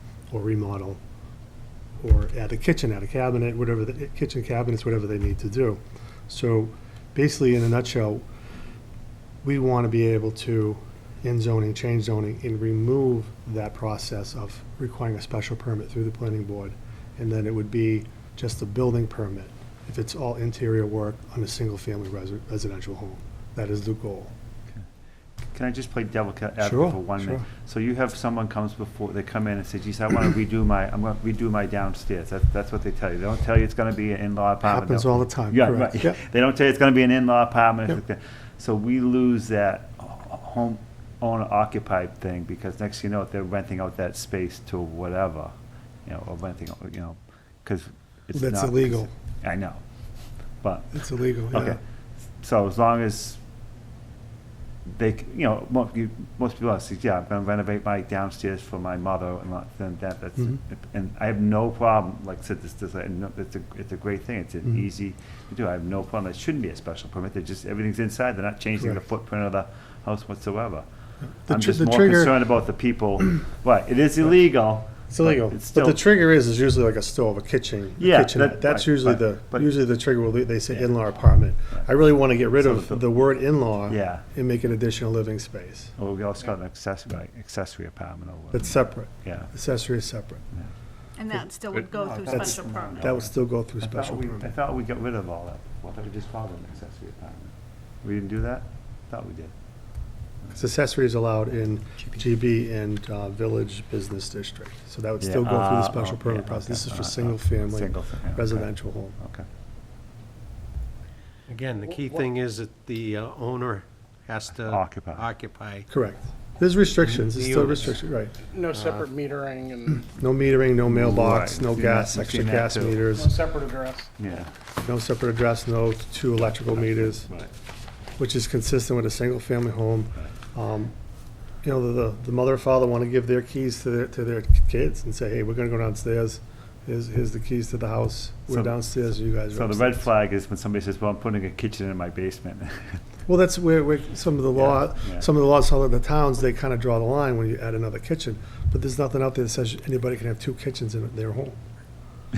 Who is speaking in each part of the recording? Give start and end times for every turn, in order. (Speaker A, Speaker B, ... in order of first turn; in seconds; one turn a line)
Speaker A: 0.3-1.0
Speaker A: 2.0-8.2
Speaker A: 9.4-24.3
Speaker B: 25.5-45.5
Speaker A: 26.6-27.5
Speaker A: 34.6-36.2
Speaker B: 46.0-49.8
Speaker A: 48.3-49.1
Speaker B: 50.6-51.8
Speaker A: 50.9-51.8
Speaker B: 52.4-53.4
Speaker B: 54.9-70.8
Speaker A: 71.5-72.4
Speaker B: 71.5-76.0
Speaker A: 75.1-85.9
Speaker B: 78.0-79.7
Speaker B: 82.6-83.2
Speaker B: 83.9-84.3
Speaker B: 86.0-89.5
Speaker A: 88.5-90.4
Speaker C: 91.2-93.2
Speaker B: 91.9-99.5
Speaker A: 92.3-94.5
Speaker A: 100.5-109.2
Speaker B: 105.2-109.5
Speaker D: 111.5-115.9
Speaker B: 114.6-115.3
Speaker A: 115.9-118.3
Speaker D: 117.0-118.0
Speaker E: 118.4-120.1
Speaker D: 118.7-119.0
Speaker A: 120.1-123.3
Speaker B: 120.9-123.2
Speaker E: 123.2-124.1
Speaker B: 124.2-124.5
Speaker A: 124.8-127.3
Speaker B: 126.5-127.5
Speaker A: 128.2-130.9
Speaker A: 131.6-140.1
Speaker B: 138.5-138.8
Speaker B: 139.5-143.0
Speaker A: 143.3-151.6
Speaker B: 144.6-145.3